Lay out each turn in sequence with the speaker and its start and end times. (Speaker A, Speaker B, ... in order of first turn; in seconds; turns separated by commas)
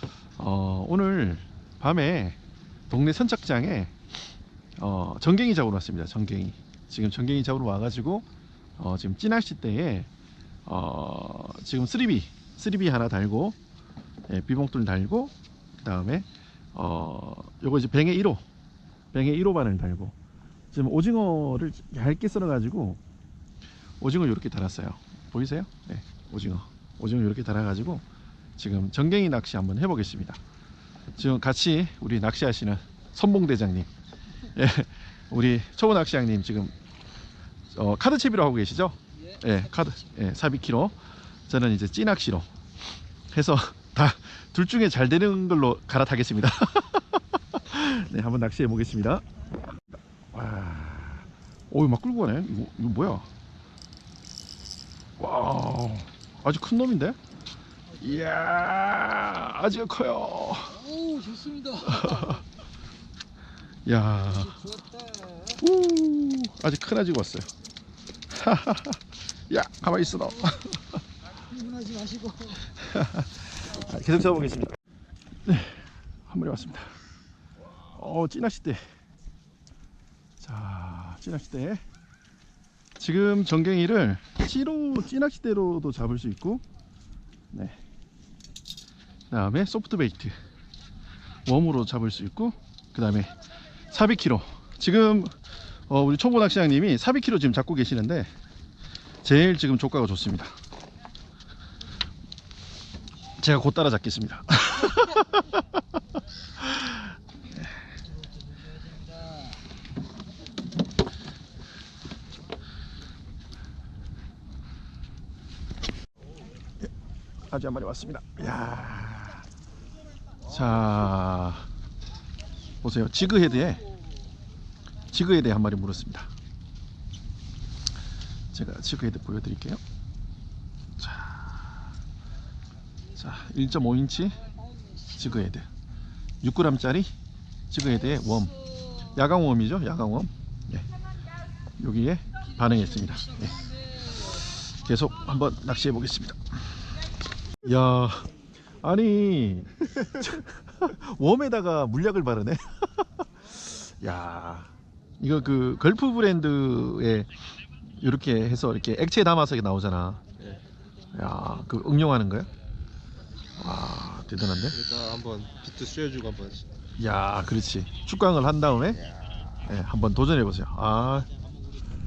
Speaker A: 0.4-4.1, Speaker A: 4.8-8.3, Speaker A: 8.8-10.1, Speaker A: 10.7-13.6, Speaker A: 14.3-18.4, Speaker A: 19.1-20.1, Speaker A: 20.7-23.0, Speaker A: 24.0-28.0, Speaker A: 28.6-30.4, Speaker A: 31.2-33.9, Speaker A: 34.5-36.7, Speaker A: 37.7-41.0, Speaker B: 39.4-39.9, Speaker A: 41.5-42.5, Speaker A: 43.3-49.2, Speaker A: 50.3-53.3, Speaker A: 55.2-57.2, Speaker A: 58.0-60.8, Speaker B: 60.7-62.4, Speaker A: 61.8-62.4, Speaker A: 63.9-64.7, Speaker B: 64.3-65.6, Speaker A: 65.6-67.5, Speaker A: 68.3-70.9, Speaker B: 71.5-72.7, Speaker A: 72.7-74.8, Speaker A: 75.5-76.9, Speaker A: 77.9-78.8, Speaker A: 80.4-81.8, Speaker A: 83.0-86.6, Speaker A: 87.5-87.8, Speaker A: 89.3-90.3, Speaker A: 91.5-93.3, Speaker A: 93.9-95.3, Speaker A: 95.9-98.3, Speaker A: 99.2-100.5, Speaker A: 103.4-105.6, Speaker A: 106.6-107.0, Speaker B: 108.6-109.5, Speaker A: 117.5-119.5, Speaker A: 120.5-121.7, Speaker A: 122.8-123.8, Speaker A: 125.1-126.3, Speaker A: 128.5-129.8, Speaker A: 131.0-131.7, Speaker A: 133.2-134.4, Speaker B: 134.7-135.3, Speaker A: 135.2-135.7, Speaker A: 136.4-137.1, Speaker A: 137.7-140.9, Speaker A: 141.8-146.8, Speaker B: 143.2-144.3, Speaker A: 147.6-148.3, Speaker A: 148.8-152.6, Speaker A: 153.8-157.3, Speaker A: 158.0-160.2, Speaker A: 161.1-162.5, Speaker A: 163.6-164.8, Speaker C: 164.7-166.7, Speaker A: 167.0-169.1, Speaker A: 169.6-171.3